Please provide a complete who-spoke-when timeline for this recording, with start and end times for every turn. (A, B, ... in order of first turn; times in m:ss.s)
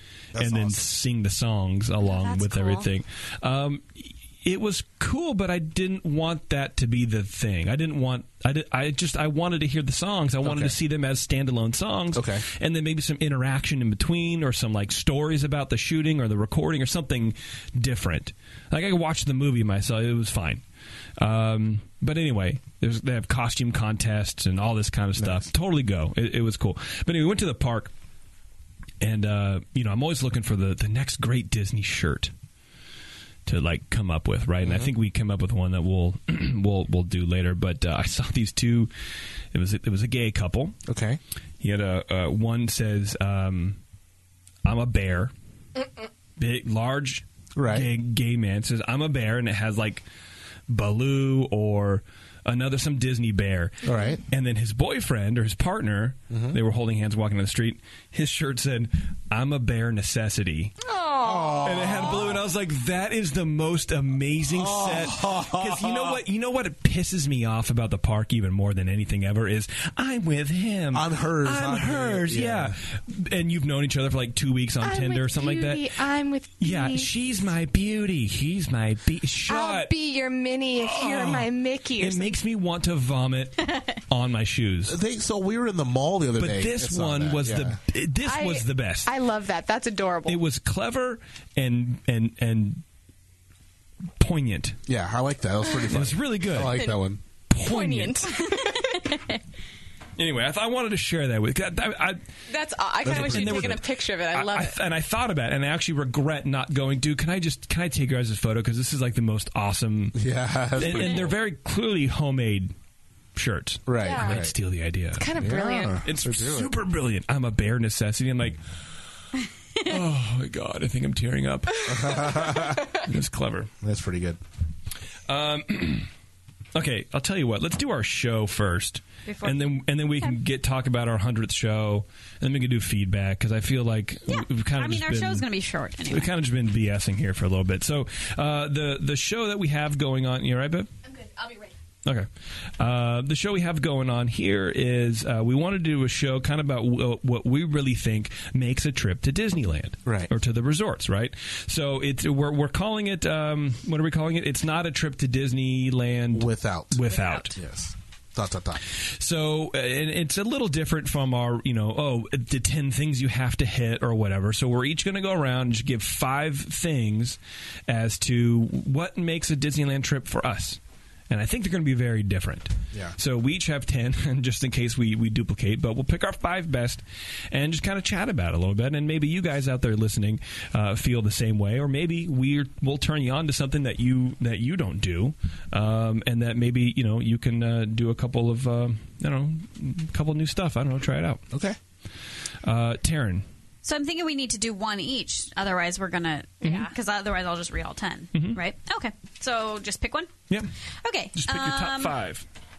0:00.3-0:00.8 A
0:00.4-0:20.6 B
0:02.0-0:02.9 C
0:10.4-0:10.8 A
0:12.1-0:12.4 A
0:21.2-0:27.9 B
0:25.2-0:25.5 A
0:29.0-0:32.3 B
0:33.5-0:38.9 B
0:34.6-0:34.9 A
0:39.5-0:40.8 B
0:40.9-0:41.2 A
0:41.6-0:43.8 B
0:44.6-0:45.3 B
0:46.4-0:50.0 B
0:47.6-0:47.9 A
0:50.7-1:00.8 B
0:53.8-0:54.2 A
0:56.3-0:56.6 A
1:00.8-1:02.4 C
1:01.2-1:02.4 A
1:01.6-1:15.9 B
1:04.5-1:06.2 A
1:10.9-1:12.8 A
1:14.8-1:17.5 C
1:16.6-1:19.9 B
1:19.5-1:22.4 C
1:20.8-1:25.0 B
1:24.9-1:27.8 A
1:26.4-1:29.1 B
1:28.2-1:30.4 C
1:30.3-1:32.8 B
1:34.2-1:34.8 B
1:34.9-1:37.2 A
1:35.9-1:36.9 B
1:36.7-1:37.0 C
1:37.5-1:38.3 B
1:37.6-1:39.2 C
1:38.5-1:39.4 D
1:40.2-1:42.2 B
1:42.5-1:44.8 C
1:43.0-1:50.2 B
1:43.0-1:43.8 A
1:50.2-1:51.3 A
1:50.8-1:52.7 B
1:53.4-1:55.3 B
1:53.9-1:54.5 A
1:54.0-1:54.5 C
1:55.2-1:56.0 C
1:55.4-1:56.7 A
1:56.0-1:58.6 B
1:59.8-2:03.7 B
2:01.9-2:02.9 A
2:03.8-2:04.4 A
2:05.3-2:06.1 B
2:06.8-2:15.5 B
2:09.3-2:10.4 D
2:14.3-2:16.3 D
2:16.1-2:20.9 B
2:21.1-2:21.7 C
2:22.8-2:37.6 B
2:36.3-2:38.8 A
2:39.0-2:50.8 B
2:51.3-3:11.4 B
3:11.5-3:11.8 A
3:12.6-3:13.4 B
3:13.8-3:20.3 D
3:16.6-3:16.9 C
3:18.3-3:18.6 B
3:21.0-3:22.2 D
3:21.4-3:22.4 B